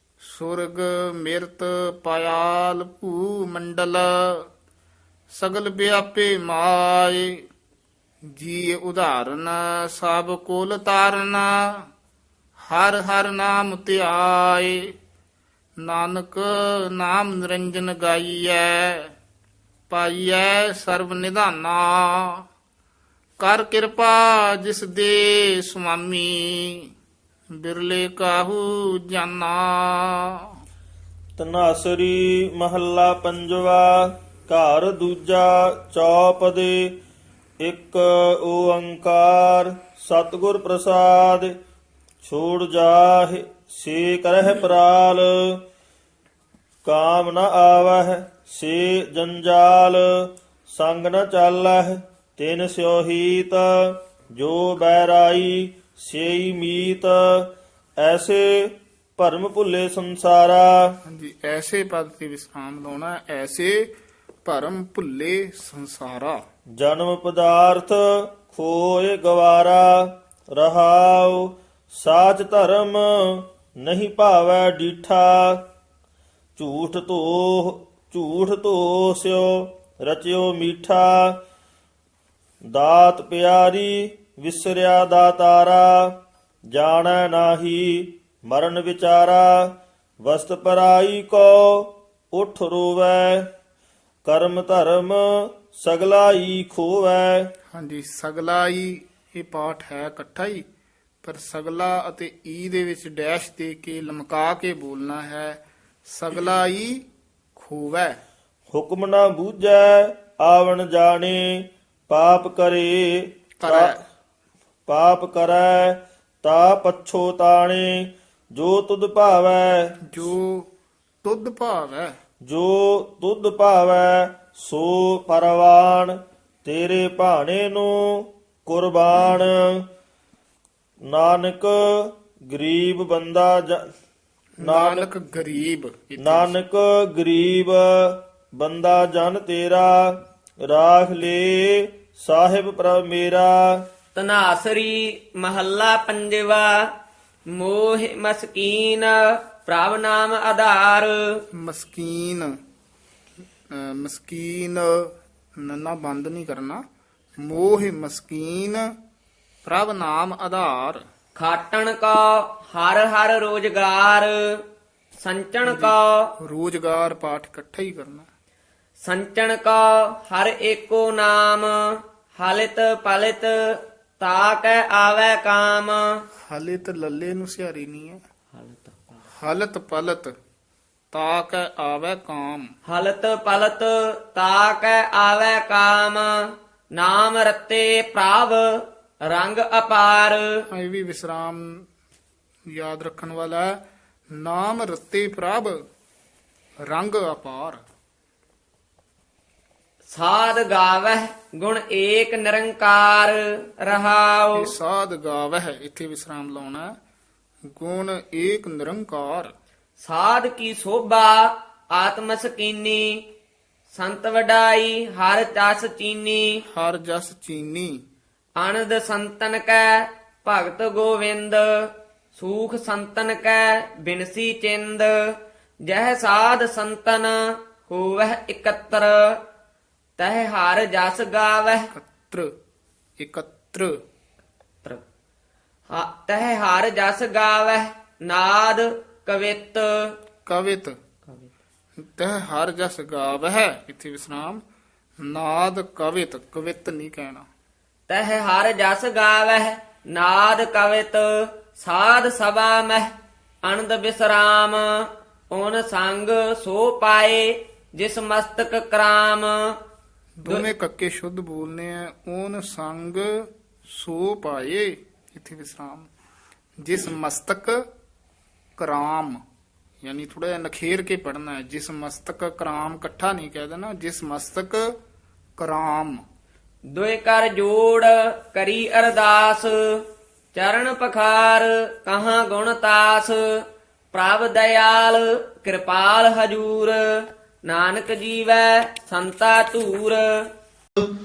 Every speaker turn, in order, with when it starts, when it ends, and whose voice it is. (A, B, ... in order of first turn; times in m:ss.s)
0:00.2-0:04.5 A
0:05.3-0:07.4 A
0:08.3-0:11.9 A
0:12.6-0:14.9 A
0:15.8-0:19.1 A
0:19.9-0:22.4 A
0:23.4-0:26.9 A
0:27.6-0:30.5 A
0:31.4-0:37.0 B
0:37.6-0:41.6 B
0:42.2-0:45.6 B
0:46.8-1:01.0 B
1:01.0-1:03.9 A
1:04.4-1:06.4 A
1:06.8-1:15.6 B
1:16.6-1:21.4 B
1:22.7-1:26.2 B
1:26.7-1:33.5 B
1:34.2-1:37.5 B
1:37.7-1:40.7 A
1:41.2-1:47.0 A
1:47.6-1:48.2 A
1:48.7-1:53.9 B
1:53.6-1:54.0 A
1:54.9-2:00.0 B
2:00.1-2:00.7 A
2:01.2-2:02.2 A
2:02.4-2:09.9 B
2:11.1-2:13.9 B
2:14.6-2:16.6 A
2:14.6-2:15.1 B
2:16.2-2:23.8 B
2:24.2-2:26.9 C
2:27.5-2:31.4 C
2:31.6-2:32.5 A
2:33.7-2:36.8 A
2:37.4-2:38.9 A
2:39.6-2:41.0 A
2:41.4-2:44.6 C
2:45.2-2:46.4 C
2:45.6-2:48.3 A
2:49.0-2:56.2 C
2:56.4-2:58.2 A
2:58.6-2:59.0 C
2:59.3-3:00.3 A
3:01.1-3:02.7 A
3:02.9-3:10.7 C
3:10.7-3:11.8 A
3:12.7-3:13.8 A
3:14.3-3:15.8 A
3:16.9-3:17.8 A
3:20.1-3:24.7 C
3:24.6-3:26.9 A
3:27.7-3:29.5 A
3:30.0-3:33.2 C
3:33.9-3:36.6 C
3:36.7-3:38.0 A
3:38.6-3:49.4 C
3:50.2-3:51.9 C
3:51.9-3:52.5 A
3:53.2-3:54.0 A
3:55.9-4:00.2 C
4:00.5-4:01.0 A
4:02.0-4:04.6 A
4:05.2-4:07.5 A
4:08.1-4:13.1 C
4:13.6-4:19.8 C
4:20.4-4:26.1 A
4:26.8-4:27.9 A
4:28.8-4:29.4 A
4:30.0-4:34.9 A
4:35.6-4:36.2 A
4:36.9-4:50.5 C